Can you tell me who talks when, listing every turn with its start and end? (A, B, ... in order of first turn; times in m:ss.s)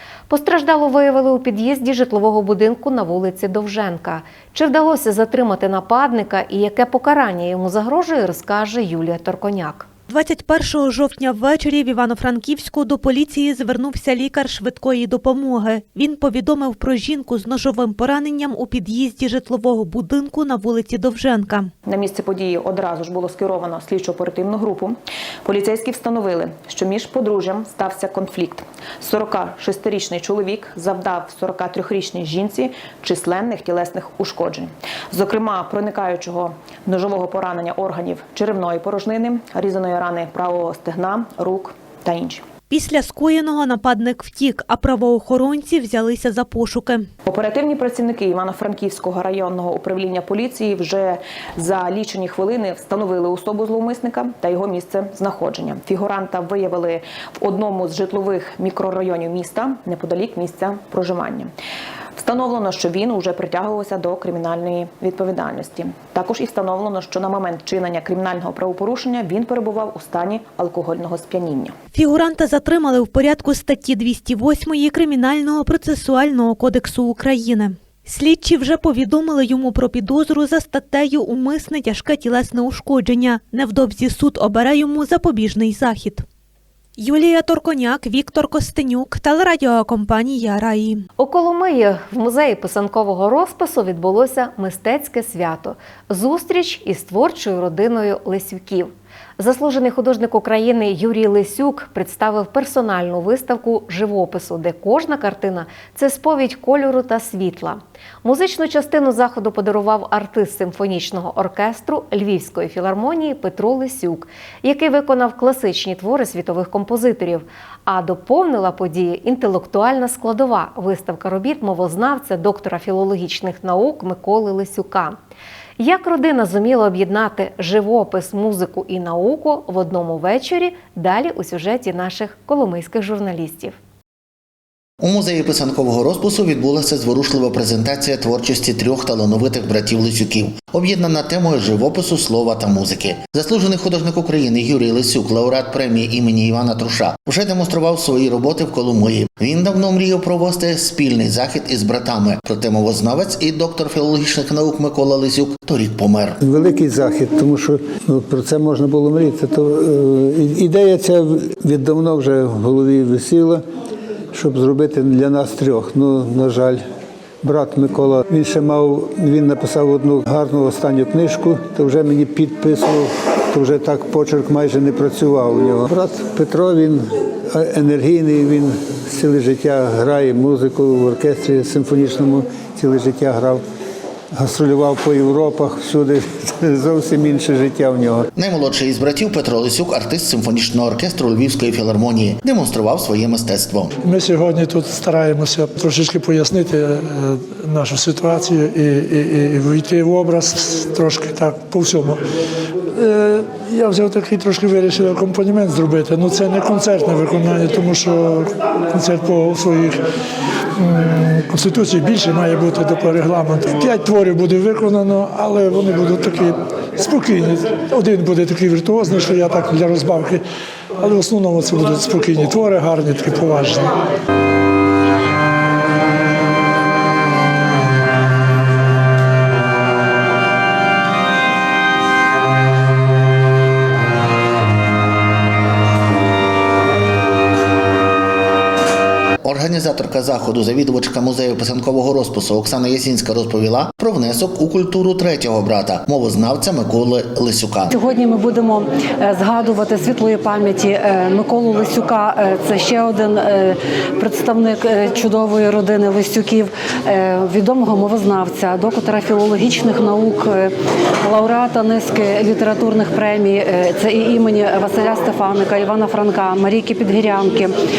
0:00.3-0:09.9 A
0:10.1-0:21.7 B
0:21.8-0:42.5 C
0:42.7-0:47.1 B
0:47.2-1:01.5 C
1:02.2-1:11.8 C
1:11.9-1:26.2 B
1:27.0-1:31.0 B
1:31.2-2:05.2 A
2:05.8-2:13.8 A
2:15.0-2:36.4 D
2:36.4-2:43.6 E
2:44.3-2:46.8 E
2:47.4-3:03.6 E
3:04.4-3:08.3 E
3:08.4-3:13.9 D
3:14.1-3:22.2 F
3:23.0-3:30.0 F
3:30.8-3:40.4 F
3:41.0-3:43.8 F
3:59.4-4:08.0 D
4:07.9-4:20.7 G
4:21.2-4:27.7 G